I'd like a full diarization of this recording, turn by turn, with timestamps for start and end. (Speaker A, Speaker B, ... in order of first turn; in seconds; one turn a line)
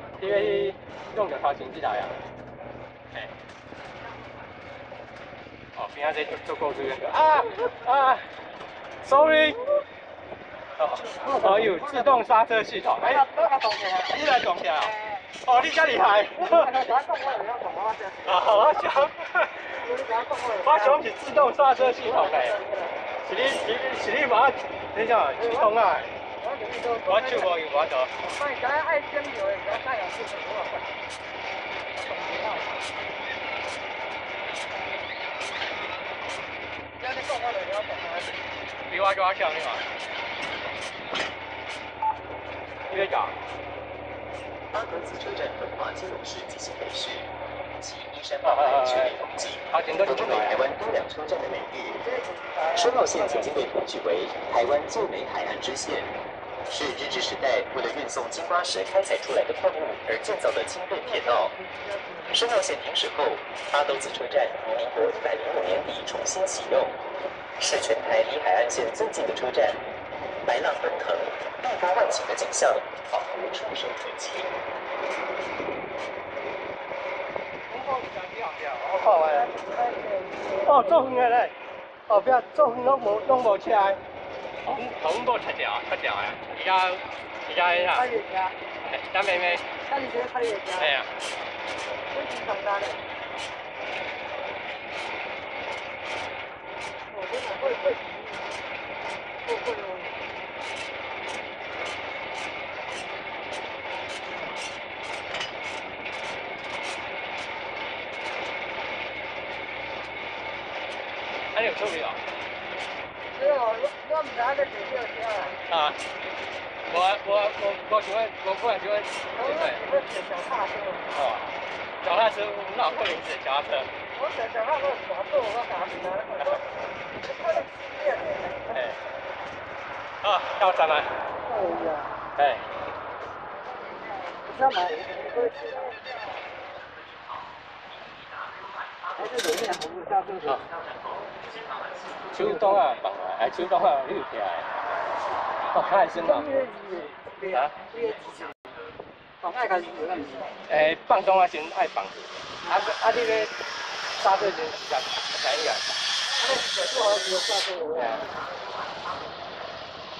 Speaker A: 0.2-2.2
Speaker A: 5.7-8.3
Speaker A: 9.0-9.6
Speaker A: 10.8-13.2
Speaker B: 11.2-12.1
Speaker B: 13.0-14.1
Speaker A: 14.1-14.9
Speaker B: 14.8-15.2
Speaker A: 15.4-16.7
Speaker B: 16.4-18.6
Speaker A: 18.2-19.8
Speaker B: 19.8-21.0
Speaker A: 20.6-22.6
Speaker B: 21.9-22.9
Speaker A: 23.2-26.1
Speaker B: 25.4-25.7
Speaker B: 26.4-27.5
Speaker A: 27.1-28.1
Speaker B: 28.2-30.9
Speaker B: 32.0-32.8
Speaker B: 37.0-38.3
Speaker A: 38.9-39.8
Speaker A: 42.9-43.4
Speaker C: 44.7-52.0
Speaker A: 48.4-50.6
Speaker B: 52.0-53.4
Speaker C: 52.7-56.1
Speaker C: 56.7-61.5
Speaker B: 60.9-62.3
Speaker C: 62.3-67.0
Speaker C: 67.6-69.8
Speaker C: 70.4-74.5
Speaker A: 77.8-79.5
Speaker B: 78.9-81.1
Speaker A: 80.6-81.5
Speaker A: 82.1-84.0
Speaker A: 84.6-88.0
Speaker B: 87.9-88.5
Speaker A: 88.8-89.6
Speaker B: 89.8-90.9
Speaker A: 90.8-91.1
Speaker B: 92.1-93.0
Speaker B: 97.1-98.4
Speaker B: 99.5-100.1
Speaker A: 111.5-112.2
Speaker B: 113.3-115.6
Speaker A: 115.7-116.0
Speaker A: 116.9-119.8
Speaker B: 119.4-121.0
Speaker A: 121.1-121.5
Speaker A: 122.0-123.9
Speaker B: 124.2-126.6
Speaker B: 127.2-128.8
Speaker A: 130.2-131.1
Speaker B: 131.5-132.1
Speaker A: 132.4-132.7
Speaker B: 134.3-135.9
Speaker C: 136.2-139.8
Speaker B: 139.2-140.5
Speaker C: 140.4-143.1
Speaker A: 142.3-144.7
Speaker C: 144.7-149.0
Speaker A: 145.7-146.6
Speaker B: 146.2-148.3
Speaker B: 149.4-150.5
Speaker C: 149.5-151.3
Speaker A: 150.7-153.5
Speaker C: 153.3-153.7
Speaker A: 154.2-156.0
Speaker B: 156.4-158.2
Speaker C: 156.8-157.3
Speaker A: 157.9-158.2
Speaker C: 158.2-159.6